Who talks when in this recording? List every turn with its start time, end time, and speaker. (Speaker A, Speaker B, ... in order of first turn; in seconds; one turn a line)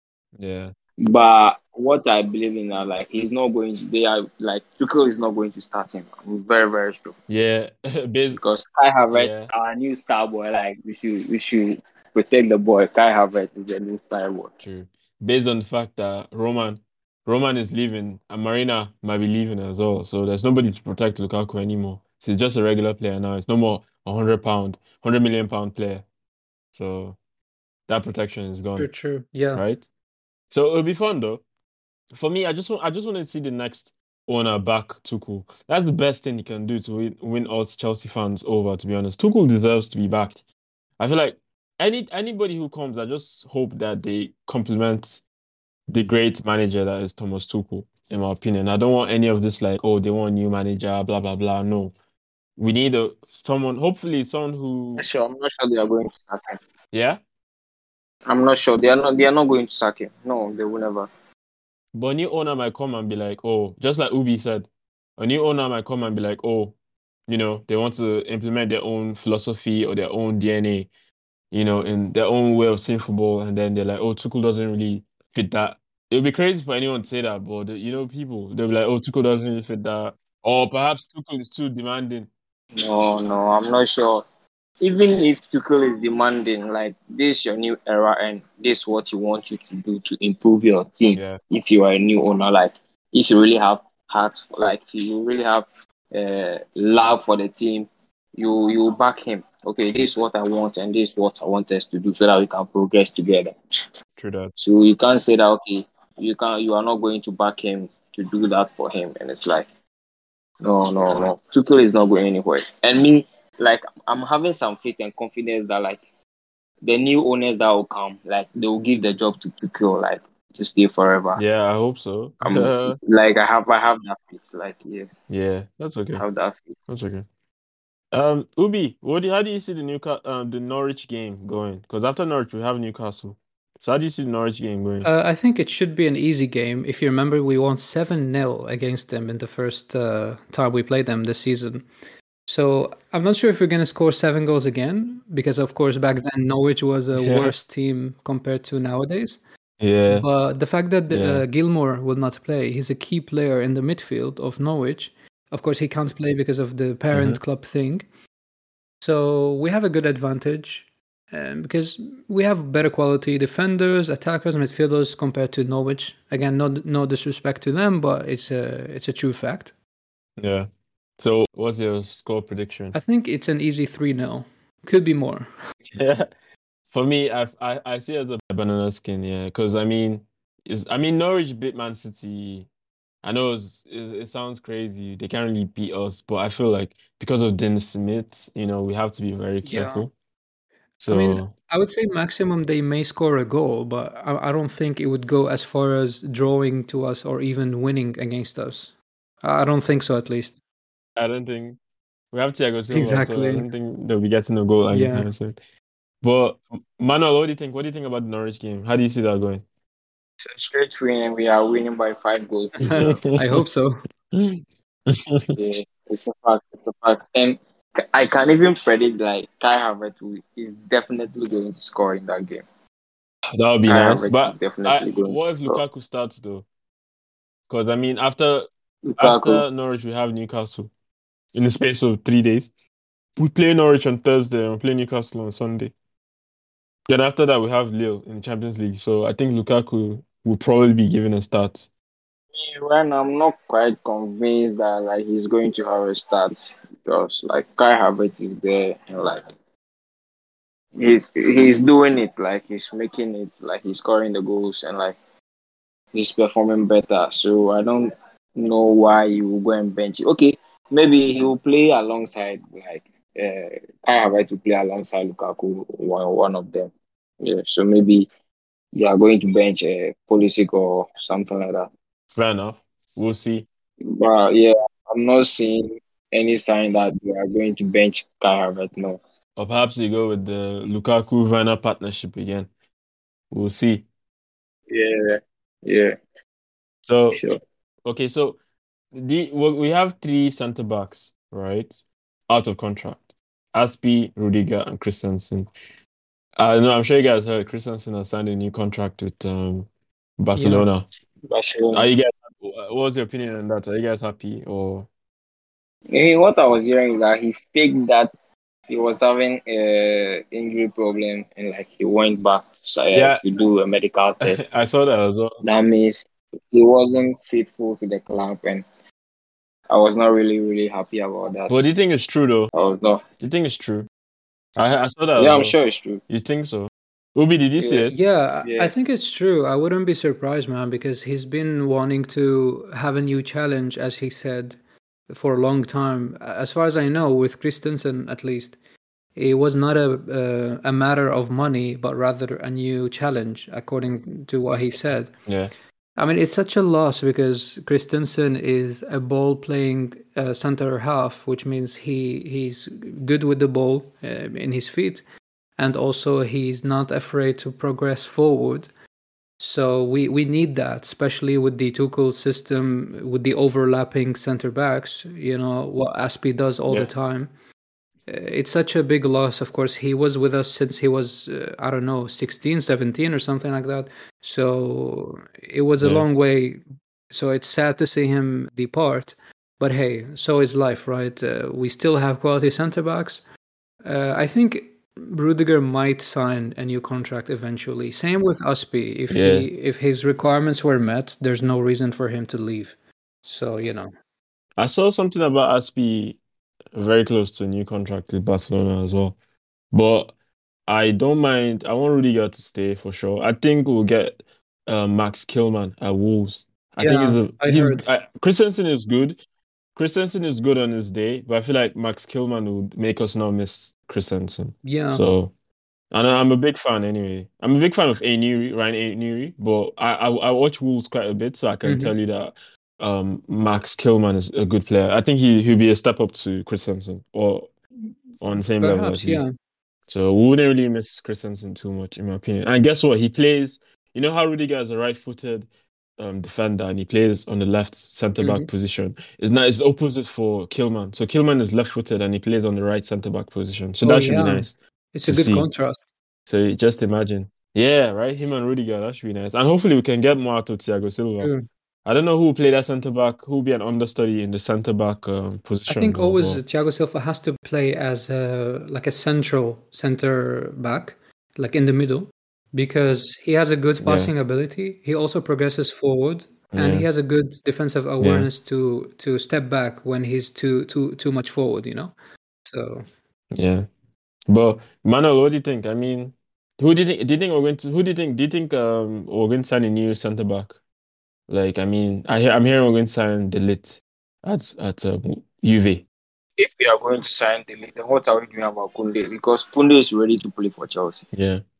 Speaker A: 0.4-0.7
Speaker B: 1.0-7.2
Speaker A: 7.3-8.4
Speaker B: 8.4-14.6
Speaker A: 9.1-9.5
Speaker A: 14.6-26.0
Speaker A: 26.7-27.2
Speaker A: 27.9-28.9
Speaker C: 28.8-29.6
Speaker A: 29.5-29.9
Speaker A: 30.5-31.4
Speaker A: 32.1-40.4
Speaker A: 41.0-45.2
Speaker A: 45.9-51.9
Speaker A: 52.6-55.0
Speaker B: 55.0-56.6
Speaker A: 56.9-57.2
Speaker B: 58.3-61.1
Speaker A: 61.9-66.7
Speaker A: 67.3-70.9
Speaker A: 71.5-82.3
Speaker B: 82.8-84.2
Speaker B: 84.8-103.5
Speaker A: 91.1-91.4
Speaker A: 104.2-104.5
Speaker B: 104.6-109.7
Speaker B: 110.6-116.0
Speaker B: 116.8-121.4
Speaker A: 121.3-123.0
Speaker B: 122.4-125.1
Speaker A: 125.3-126.2
Speaker B: 126.2-126.8
Speaker A: 126.9-127.2
Speaker A: 128.1-135.1
Speaker C: 135.0-141.9
Speaker C: 142.5-149.4
Speaker A: 147.2-147.5
Speaker A: 149.8-150.2
Speaker C: 150.1-158.0
Speaker A: 151.1-151.4
Speaker A: 157.1-157.4
Speaker C: 159.0-169.7
Speaker A: 170.4-173.0
Speaker C: 172.9-175.5
Speaker A: 175.9-176.3
Speaker A: 176.9-182.7
Speaker A: 183.2-190.1
Speaker C: 189.7-190.0
Speaker A: 191.0-191.5
Speaker C: 191.1-200.6
Speaker A: 201.2-201.8
Speaker A: 202.3-205.6
Speaker C: 202.9-203.7
Speaker C: 204.9-205.3
Speaker A: 206.2-209.6
Speaker B: 210.4-213.2
Speaker C: 212.8-214.0
Speaker A: 212.8-213.7
Speaker A: 214.3-215.5
Speaker B: 215.5-222.6
Speaker A: 223.5-226.7
Speaker B: 223.8-225.8
Speaker A: 227.7-230.9
Speaker B: 229.0-229.6
Speaker A: 231.5-232.7
Speaker A: 233.4-235.9
Speaker A: 237.1-241.9
Speaker B: 242.5-249.5
Speaker B: 250.9-255.2
Speaker B: 256.1-268.3
Speaker B: 268.9-271.9
Speaker A: 272.3-273.6
Speaker B: 274.0-279.2
Speaker A: 279.6-282.7
Speaker A: 283.5-284.1
Speaker B: 284.9-286.2
Speaker A: 287.0-287.4
Speaker B: 287.3-287.6
Speaker A: 288.0-288.6
Speaker A: 289.1-295.7
Speaker A: 296.6-301.1
Speaker C: 300.6-300.9
Speaker B: 301.4-302.1
Speaker A: 301.9-305.1
Speaker B: 306.1-308.3
Speaker B: 308.9-314.6
Speaker A: 313.1-313.4
Speaker A: 314.4-315.6
Speaker B: 315.6-318.9
Speaker B: 319.9-321.8
Speaker A: 321.7-322.7
Speaker B: 322.7-323.2
Speaker A: 323.4-324.1
Speaker A: 324.8-325.7
Speaker B: 325.4-326.2
Speaker A: 326.3-328.2
Speaker B: 327.8-328.0
Speaker C: 328.1-334.8
Speaker B: 328.6-328.9
Speaker C: 335.3-338.8
Speaker C: 339.4-345.3
Speaker C: 346.2-355.2
Speaker C: 355.8-358.9
Speaker C: 359.6-367.5
Speaker C: 368.3-383.4
Speaker A: 376.0-376.2
Speaker C: 384.0-394.1
Speaker A: 389.3-389.7
Speaker A: 394.8-396.4
Speaker A: 396.9-399.4
Speaker A: 399.9-400.3
Speaker A: 400.9-409.4
Speaker C: 407.0-408.0
Speaker A: 409.9-415.5
Speaker C: 414.8-415.2
Speaker A: 416.1-427.7
Speaker C: 421.8-422.1
Speaker A: 428.4-429.4
Speaker C: 428.5-429.5
Speaker A: 430.1-445.7
Speaker C: 438.4-438.7
Speaker C: 444.0-446.0
Speaker A: 446.4-451.5
Speaker C: 451.4-451.6
Speaker A: 452.0-456.6
Speaker C: 455.9-473.1
Speaker A: 464.0-464.3
Speaker A: 466.7-467.1
Speaker A: 468.2-468.5
Speaker A: 473.5-473.9
Speaker A: 474.5-480.8
Speaker A: 481.5-486.0
Speaker B: 486.6-491.3
Speaker A: 491.3-491.6